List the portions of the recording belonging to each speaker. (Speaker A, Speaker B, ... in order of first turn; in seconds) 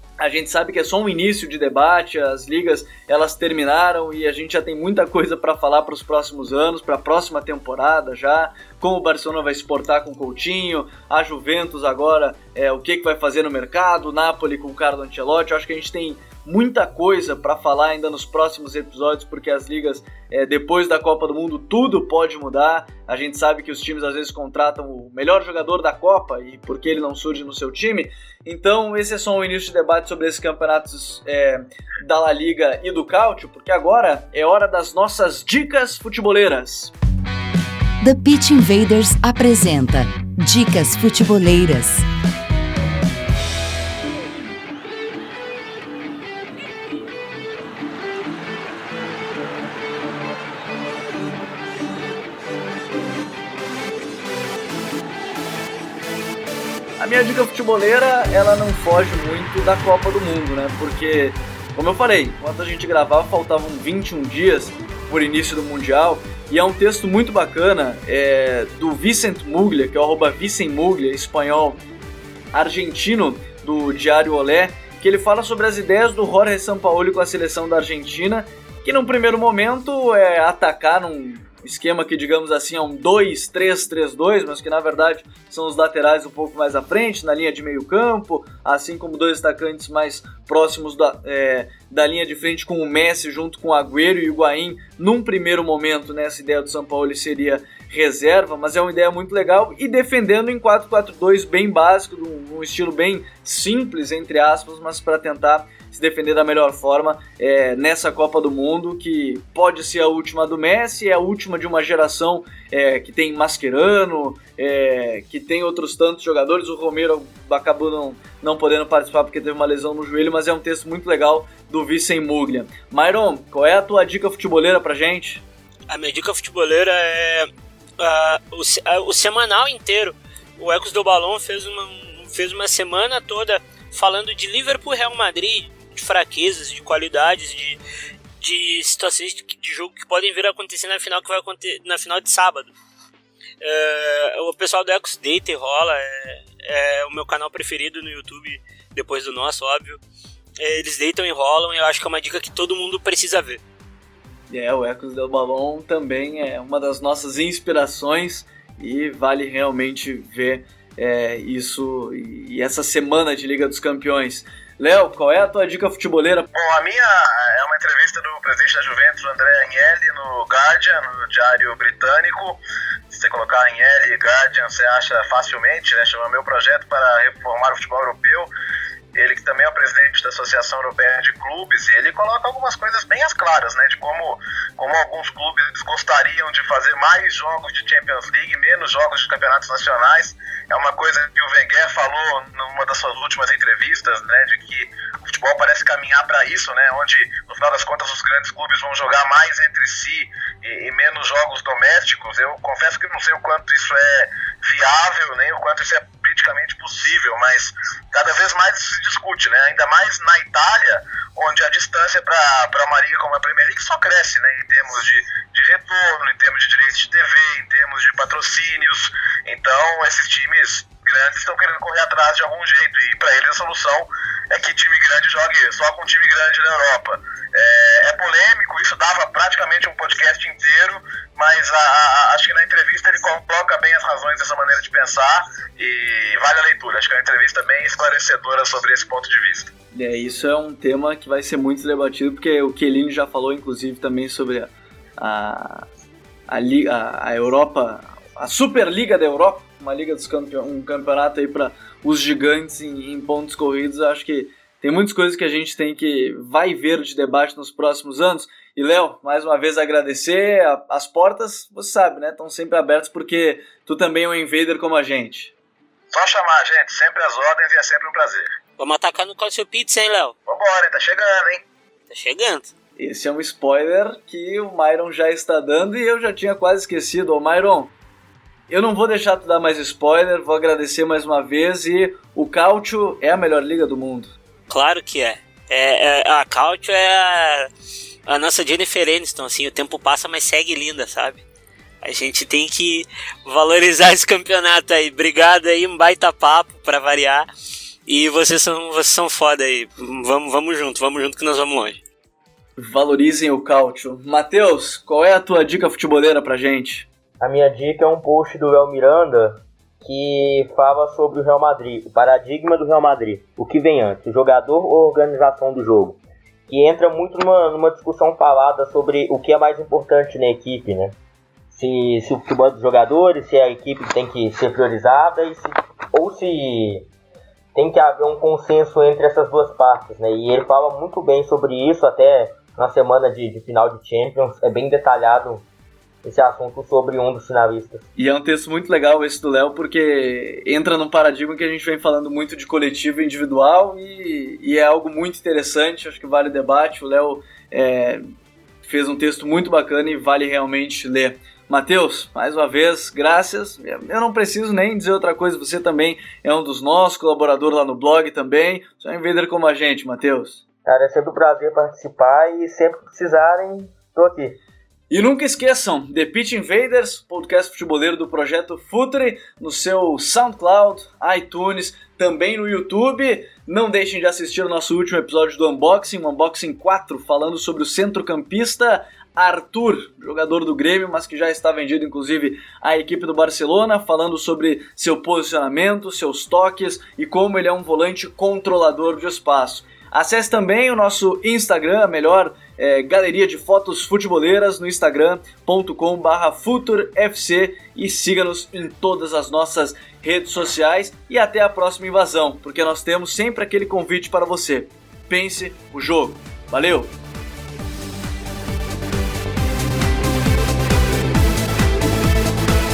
Speaker A: 0.2-36.9, 57.0-71.8, 72.5-125.4, 154.5-166.5, 239.9-245.9, 246.5-265.5, 273.0-277.9, 278.7-284.3, 302.8-307.1, 338.1-348.2, 348.8-360.6, 365.1-407.1
Speaker B: 38.0-42.0
Speaker C: 125.9-137.8, 138.4-142.7, 143.6-150.0, 150.6-153.6, 268.8-270.3, 272.1-272.7, 284.7-287.7, 288.3-291.4, 292.0-297.5, 298.1-302.0
Speaker D: 166.5-172.6, 173.1-178.5, 179.1-239.7, 266.1-268.5, 270.5-271.6
Speaker E: 307.4-321.2, 321.7-327.1, 327.7-335.7, 336.2-338.1, 360.9-364.6